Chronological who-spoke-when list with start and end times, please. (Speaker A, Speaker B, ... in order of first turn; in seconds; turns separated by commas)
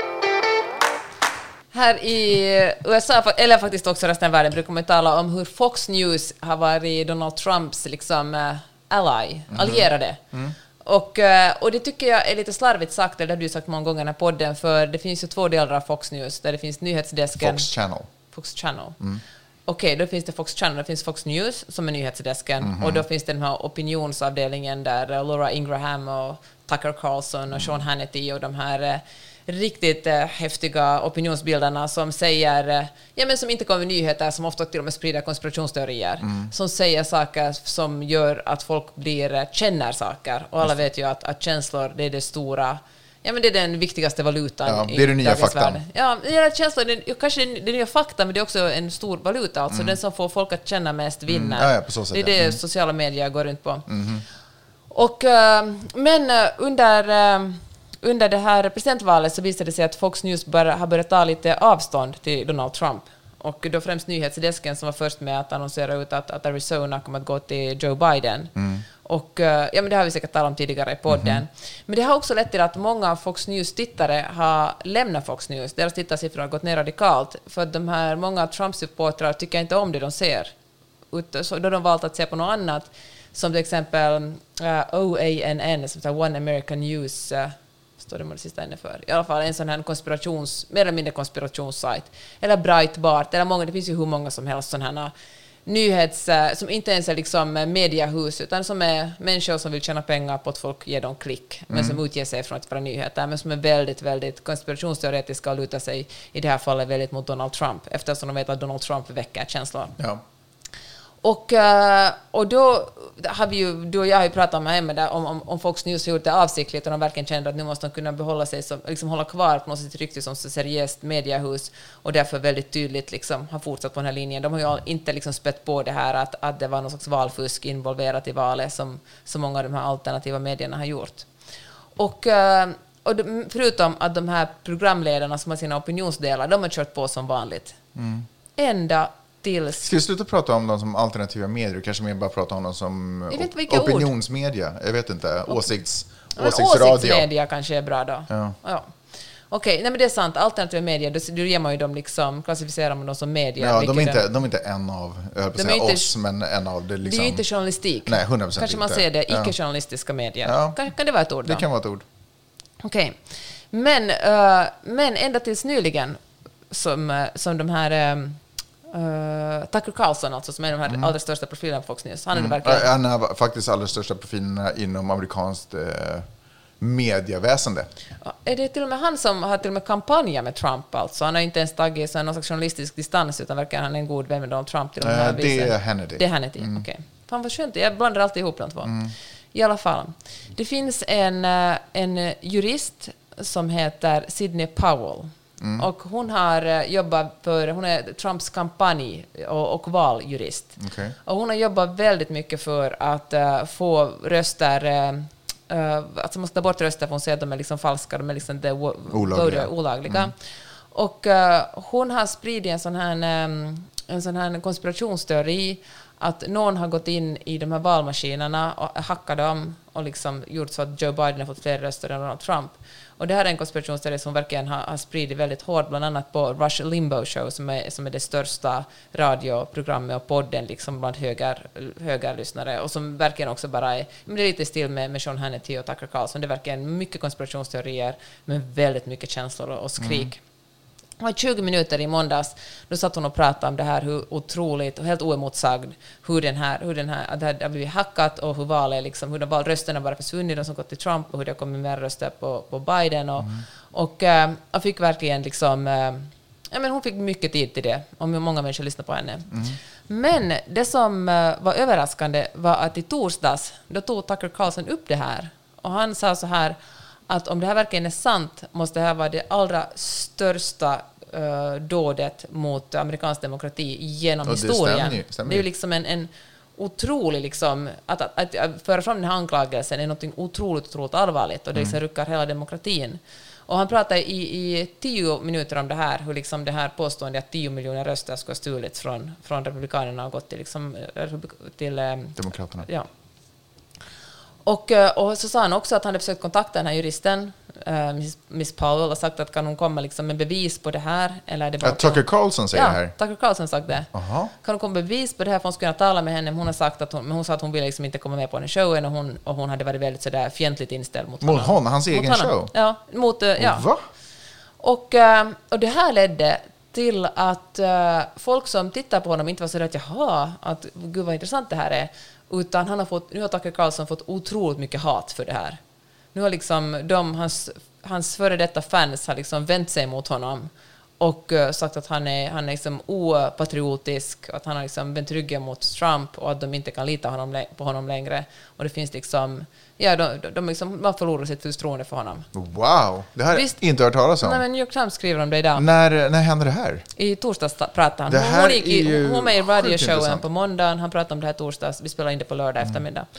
Speaker A: 1.7-10.2, Speaker B: 9.5-10.6, Speaker A: 10.8-17.7, Speaker B: 17.4-18.1, Speaker A: 18.3-19.0, Speaker A: 19.7-53.9, Speaker B: 22.6-23.0, Speaker B: 36.2-36.5, Speaker B: 44.7-45.8, Speaker B: 49.7-50.0, Speaker B: 51.3-52.6, Speaker B: 53.9-54.2, Speaker A: 54.9-80.5, Speaker B: 68.6-68.8, Speaker B: 71.1-71.4, Speaker A: 81.1-95.1, Speaker A: 95.7-110.0, Speaker B: 101.7-102.0, Speaker A: 111.2-131.3, Speaker A: 132.0-137.8, Speaker B: 137.9-138.3, Speaker A: 138.6-139.9, Speaker B: 139.8-147.3, Speaker A: 143.3-144.1, Speaker A: 146.4-148.9, Speaker B: 148.3-148.6, Speaker A: 149.5-154.2, Speaker B: 153.6-157.5, Speaker A: 155.6-156.1, Speaker A: 157.0-161.6, Speaker B: 158.1-159.5, Speaker B: 160.5-160.8, Speaker B: 161.4-162.1, Speaker A: 162.8-172.9, Speaker B: 172.3-176.3, Speaker B: 176.8-177.9, Speaker A: 178.2-189.0, Speaker B: 185.0-186.8, Speaker B: 188.8-189.1, Speaker A: 189.5-240.4, Speaker B: 195.6-195.9, Speaker B: 200.8-201.2, Speaker B: 209.1-210.3, Speaker B: 240.0-240.3, Speaker A: 241.2-266.8, Speaker B: 253.4-253.7, Speaker B: 259.5-259.8, Speaker A: 267.3-293.1, Speaker B: 274.4-275.7, Speaker B: 292.4-292.9, Speaker A: 294.6-304.1, Speaker B: 301.8-303.1, Speaker B: 304.1-304.5, Speaker A: 304.6-313.9, Speaker B: 311.4-312.7, Speaker B: 313.6-314.0, Speaker A: 314.8-325.8, Speaker A: 326.3-342.5, Speaker B: 342.5-344.6, Speaker A: 343.5-343.8, Speaker A: 344.4-345.9, Speaker B: 345.8-347.0, Speaker A: 347.2-353.3, Speaker B: 348.3-350.4